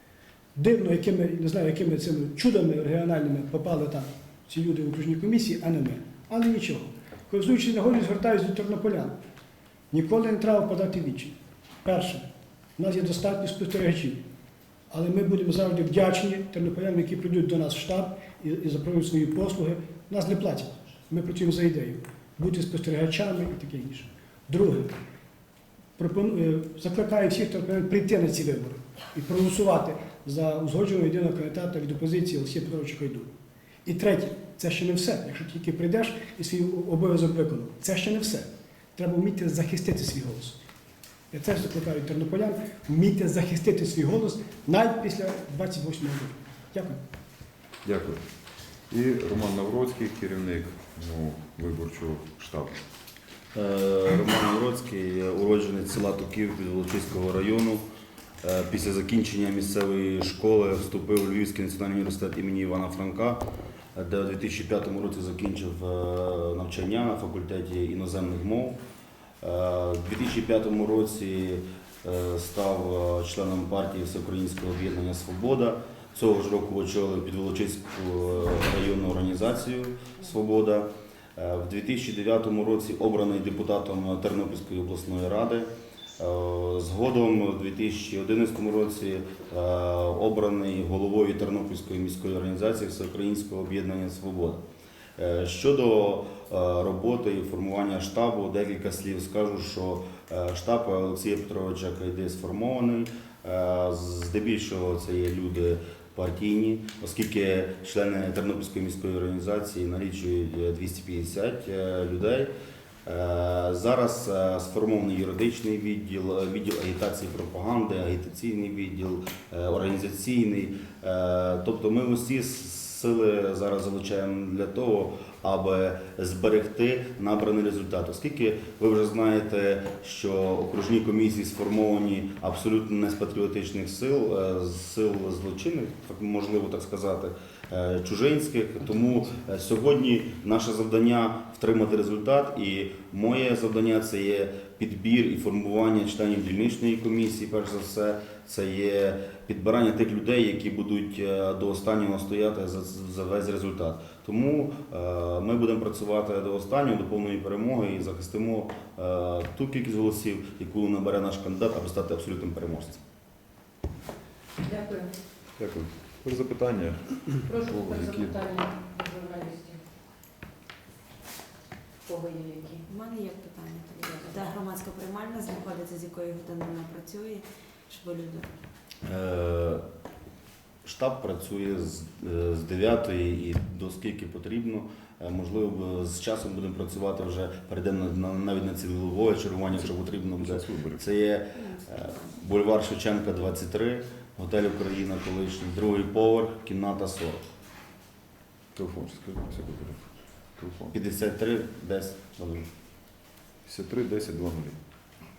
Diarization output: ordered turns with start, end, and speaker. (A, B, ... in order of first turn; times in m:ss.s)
0:00.5-0:09.2 A
0:09.9-0:14.2 A
0:14.9-0:24.9 A
0:26.0-0:33.3 A
0:33.8-0:40.6 A
0:41.3-0:47.0 A
0:47.8-0:48.2 B
0:48.9-0:52.8 B
0:53.5-0:57.8 C
0:58.4-1:03.4 C
1:03.9-1:08.8 C
1:09.4-1:34.6 C
1:35.2-1:52.5 C
1:53.0-2:43.0 C
2:44.6-2:45.1 D
2:45.6-2:48.4 B
2:47.4-2:49.8 D
2:52.0-2:52.8 D
2:52.9-2:58.5 E
2:54.0-2:54.4 D
2:59.0-2:59.8 C
3:00.8-3:17.4 C
3:09.7-3:11.0 B
3:11.5-3:12.4 E
3:18.7-3:20.9 B
3:20.9-3:22.6 C
3:23.6-3:24.8 B